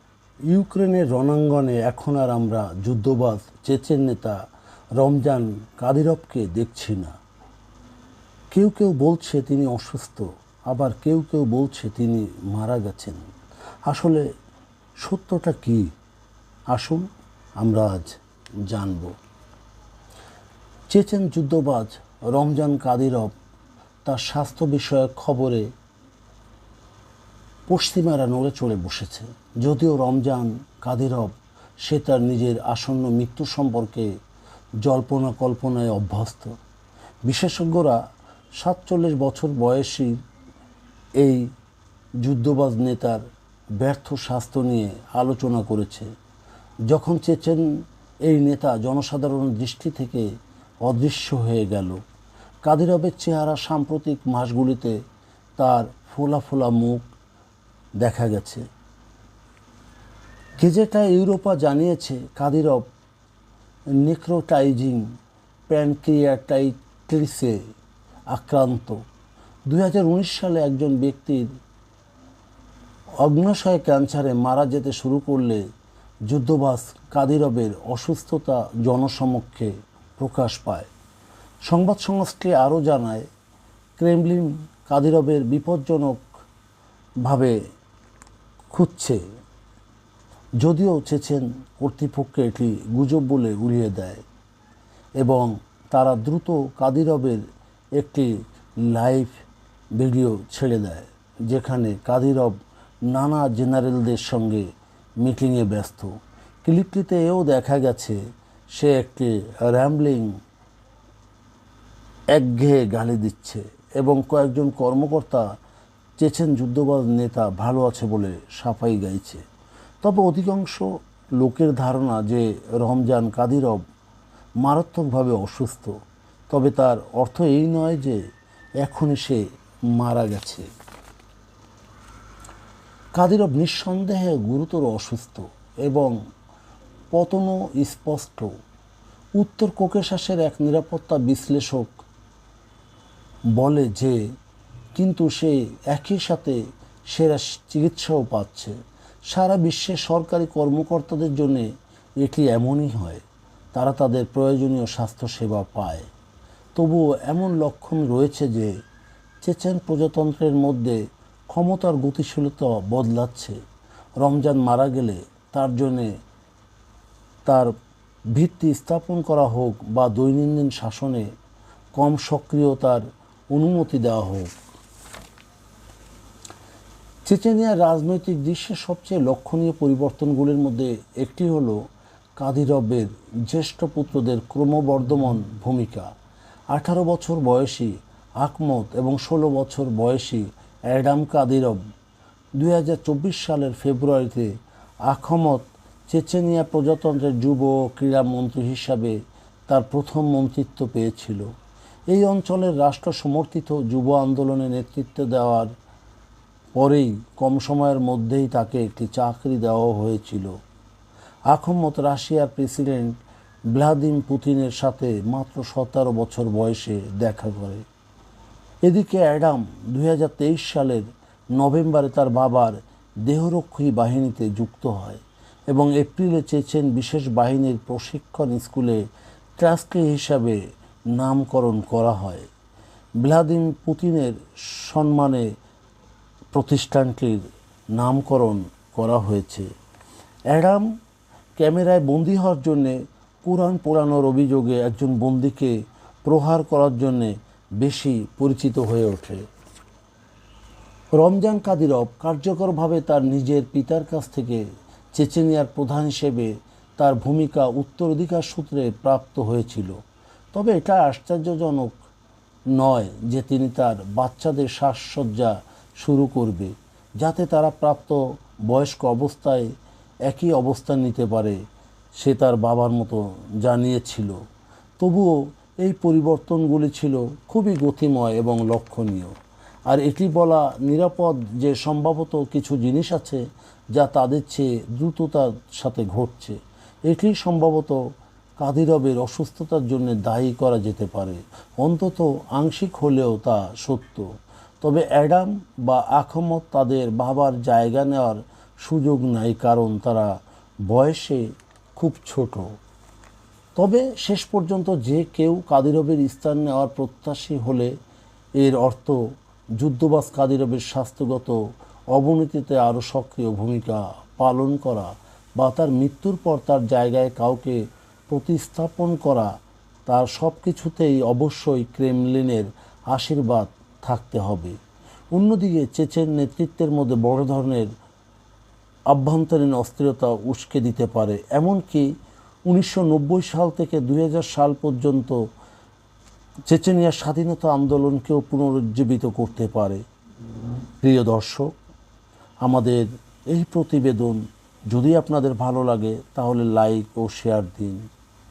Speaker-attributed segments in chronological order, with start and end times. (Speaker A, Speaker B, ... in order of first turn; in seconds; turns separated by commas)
Speaker A: 0.5-4.4, Speaker A: 5.0-7.2, Speaker A: 8.5-13.2, Speaker A: 13.8-14.2, Speaker A: 15.0-15.9, Speaker A: 16.7-17.1, Speaker A: 17.6-19.1, Speaker A: 20.9-23.3, Speaker A: 24.0-25.7, Speaker A: 27.7-34.1, Speaker A: 34.8-36.5, Speaker A: 37.2-38.0, Speaker A: 38.6-40.1, Speaker A: 41.2-41.5, Speaker A: 42.2-43.2, Speaker A: 43.8-46.1, Speaker A: 46.9-47.6, Speaker A: 48.2-50.3, Speaker A: 50.8-52.0, Speaker A: 52.6-55.0, Speaker A: 55.6-57.0, Speaker A: 58.0-58.6, Speaker A: 60.6-62.8, Speaker A: 64.0-65.0, Speaker A: 65.7-67.6, Speaker A: 68.3-69.0, Speaker A: 69.7-71.5, Speaker A: 73.2-75.6, Speaker A: 76.3-80.9, Speaker A: 81.7-83.2, Speaker A: 84.0-86.2, Speaker A: 87.2-87.5, Speaker A: 88.7-89.2, Speaker A: 90.6-94.2, Speaker A: 95.2-97.4, Speaker A: 98.0-98.3, Speaker A: 98.9-99.4, Speaker A: 100.0-102.5, Speaker A: 103.1-104.7, Speaker A: 105.2-106.1, Speaker A: 106.6-108.2, Speaker A: 108.8-110.3, Speaker A: 112.3-115.4, Speaker A: 116.2-119.4, Speaker A: 120.0-120.8, Speaker A: 121.4-123.8, Speaker A: 124.6-125.9, Speaker A: 126.5-128.2, Speaker A: 128.8-129.4, Speaker A: 129.9-130.7, Speaker A: 133.2-136.1, Speaker A: 137.1-138.5, Speaker A: 139.4-141.9, Speaker A: 143.6-144.2, Speaker A: 144.9-146.6, Speaker A: 147.1-148.8, Speaker A: 149.3-151.7, Speaker A: 152.2-153.2, Speaker A: 153.7-156.1, Speaker A: 156.8-158.7, Speaker A: 159.4-161.0, Speaker A: 161.5-163.6, Speaker A: 164.2-166.1, Speaker A: 168.3-171.2, Speaker A: 171.9-174.5, Speaker A: 177.2-181.8, Speaker A: 182.4-186.1, Speaker A: 186.7-191.8, Speaker A: 192.6-194.5, Speaker A: 195.1-199.1, Speaker A: 199.7-201.4, Speaker A: 202.1-205.7, Speaker A: 206.8-210.5, Speaker A: 211.5-213.1, Speaker A: 213.7-217.8, Speaker A: 218.8-221.0, Speaker A: 221.6-229.0, Speaker A: 229.6-230.6, Speaker A: 231.2-232.5, Speaker A: 233.2-235.4, Speaker A: 236.5-237.4, Speaker A: 237.9-239.7, Speaker A: 240.5-240.8, Speaker A: 241.6-245.7, Speaker A: 246.2-249.4, Speaker A: 251.2-259.9, Speaker A: 260.5-262.0, Speaker A: 262.7-269.7, Speaker A: 270.3-271.6, Speaker A: 272.2-274.3, Speaker A: 275.0-279.3, Speaker A: 279.9-283.4, Speaker A: 283.9-288.0, Speaker A: 288.6-294.2, Speaker A: 294.8-300.3, Speaker A: 300.9-301.4, Speaker A: 301.9-302.7, Speaker A: 303.8-307.9, Speaker A: 308.6-309.2, Speaker A: 309.8-311.6, Speaker A: 312.1-319.5, Speaker A: 320.1-324.8, Speaker A: 325.3-327.9, Speaker A: 329.1-332.1, Speaker A: 332.7-335.4, Speaker A: 336.7-340.0, Speaker A: 341.0-341.7, Speaker A: 342.6-348.0